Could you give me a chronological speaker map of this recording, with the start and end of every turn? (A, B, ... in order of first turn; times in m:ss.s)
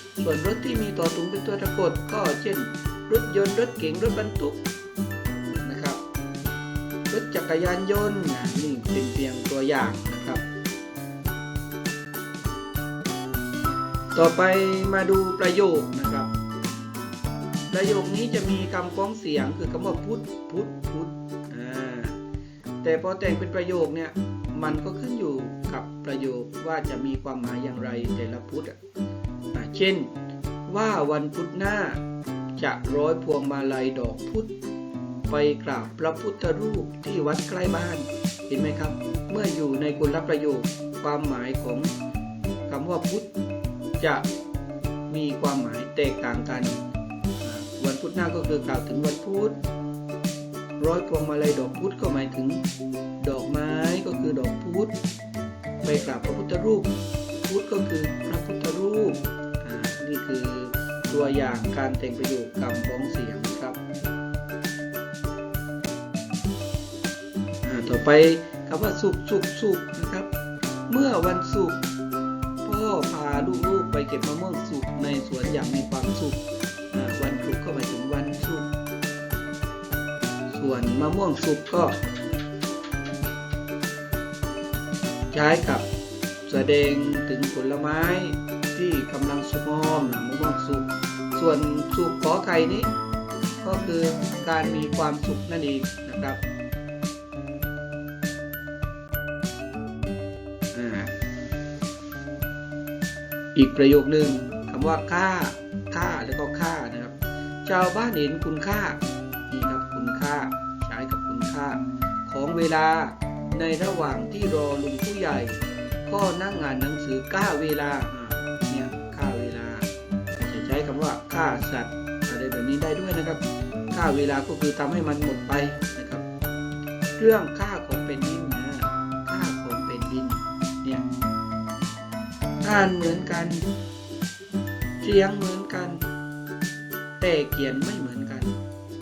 0:00.2-0:04.6 A
0:05.5-0:06.0 A
0:07.1-0:10.4 A
0:14.1-0:16.3 A
0:17.7-0:22.2 A
0:22.8-0:28.8 A
0:29.5-0:30.1 A
0:30.7-0:32.0 A
0:32.6-0:34.5 A
0:35.3-0:41.9 A
0:42.7-0:43.3 A
0:44.0-0:44.3 A
0:45.1-0:46.8 A
0:47.4-0:49.6 A
0:50.8-0:52.6 A
0:53.2-0:55.0 A
0:55.8-0:56.9 A
0:57.4-1:03.8 A
1:07.6-1:10.3 A
1:10.9-1:11.8 A
1:12.6-1:18.7 A
1:20.5-1:22.0 A
1:25.3-1:25.9 A
1:26.4-1:32.9 A
1:33.6-1:36.4 A
1:40.7-1:41.1 A
1:43.5-2:06.2 A
2:07.2-2:11.0 A
2:12.6-2:13.7 A
2:15.0-2:16.0 A
2:17.2-2:18.6 A